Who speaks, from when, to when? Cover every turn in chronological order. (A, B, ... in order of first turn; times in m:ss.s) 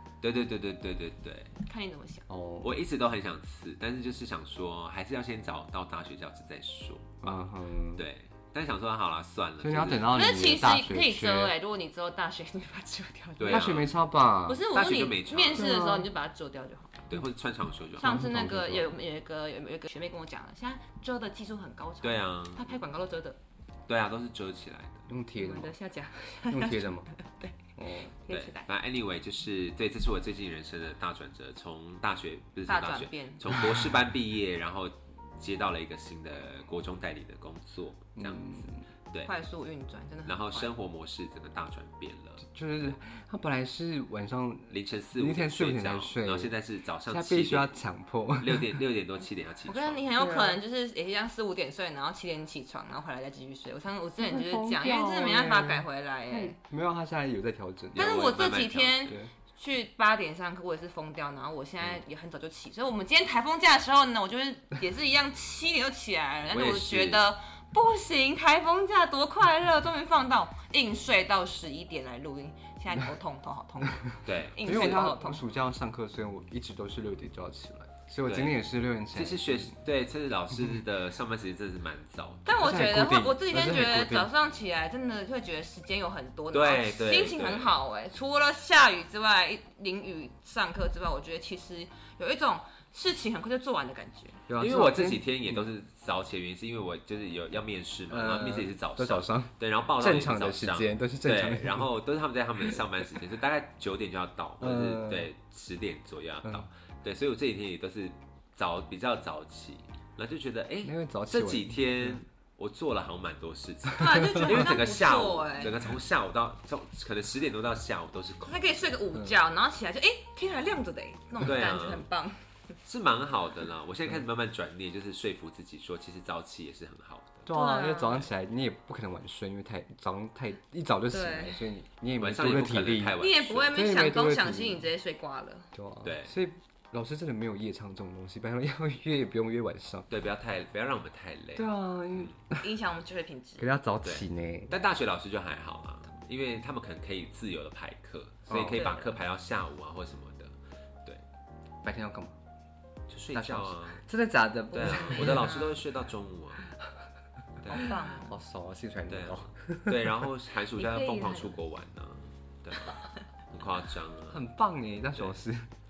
0:00.2-0:01.5 A
0:01.6-0:02.2 B
0:02.3-0:02.8 C
0:02.6-0:07.1 A
0:07.2-0:08.0 C
0:08.0-0:10.1 A
0:09.6-0:11.5 C
0:10.1-0:13.8 B
0:13.4-0:13.9 A
0:13.5-0:14.7 C
0:14.4-0:17.2 B
0:14.7-0:15.7 A
0:15.5-0:16.1 C
0:17.1-0:18.2 A
0:18.0-0:23.4 B
0:18.0-0:18.9 C
0:22.0-0:22.7 A
0:23.9-0:25.0 A
0:25.1-0:25.7 C
0:25.4-0:27.6 B
0:26.5-0:27.1 C
0:27.8-0:28.2 C
0:28.2-0:28.7 B
0:28.3-0:38.6 A
0:32.7-0:33.6 B
0:38.2-0:38.7 C
0:39.2-0:40.7 B
0:40.2-0:42.4 A
0:42.4-0:46.5 C
0:44.7-0:47.8 A
0:47.1-0:48.8 C
0:48.4-0:50.0 A
0:49.7-0:56.6 B
0:50.1-0:50.6 C
0:54.2-0:58.1 C
0:57.9-0:59.1 A
0:58.0-1:15.4 B
1:06.5-1:07.2 A
1:14.2-1:15.1 A
1:14.6-1:19.8 C
1:18.2-1:18.6 A
1:19.1-1:22.4 A
1:22.4-1:34.4 B
1:22.5-1:24.3 C
1:26.5-1:27.7 A
1:34.5-1:35.6 C
1:34.6-1:58.9 A
1:38.1-1:41.9 C
1:44.6-1:45.3 C
1:50.8-1:52.2 C
1:54.0-1:55.7 B
1:54.0-1:54.7 C
1:58.4-2:02.4 B
2:01.4-2:02.0 A
2:02.8-2:07.4 A
2:07.4-2:13.2 C
2:07.5-2:08.2 B
2:11.1-2:11.6 B
2:12.2-2:13.8 A
2:13.2-2:15.7 B
2:13.7-2:14.9 C
2:15.7-2:20.1 C
2:16.0-2:16.3 A
2:20.1-2:21.7 A
2:21.6-2:22.6 C
2:22.6-2:23.6 B
2:23.6-2:24.7 C
2:24.0-2:31.2 A
2:28.5-2:28.9 C
2:28.7-2:29.1 B
2:31.8-2:32.4 C
2:33.1-2:34.0 A
2:33.3-2:35.6 C
2:34.7-2:36.7 A
2:34.7-2:35.8 B
2:37.6-2:37.9 A
2:37.7-2:38.4 B
2:37.7-2:40.1 C
2:39.1-2:43.0 A
2:40.8-2:41.5 B
2:43.5-2:44.4 A
2:44.3-2:45.7 C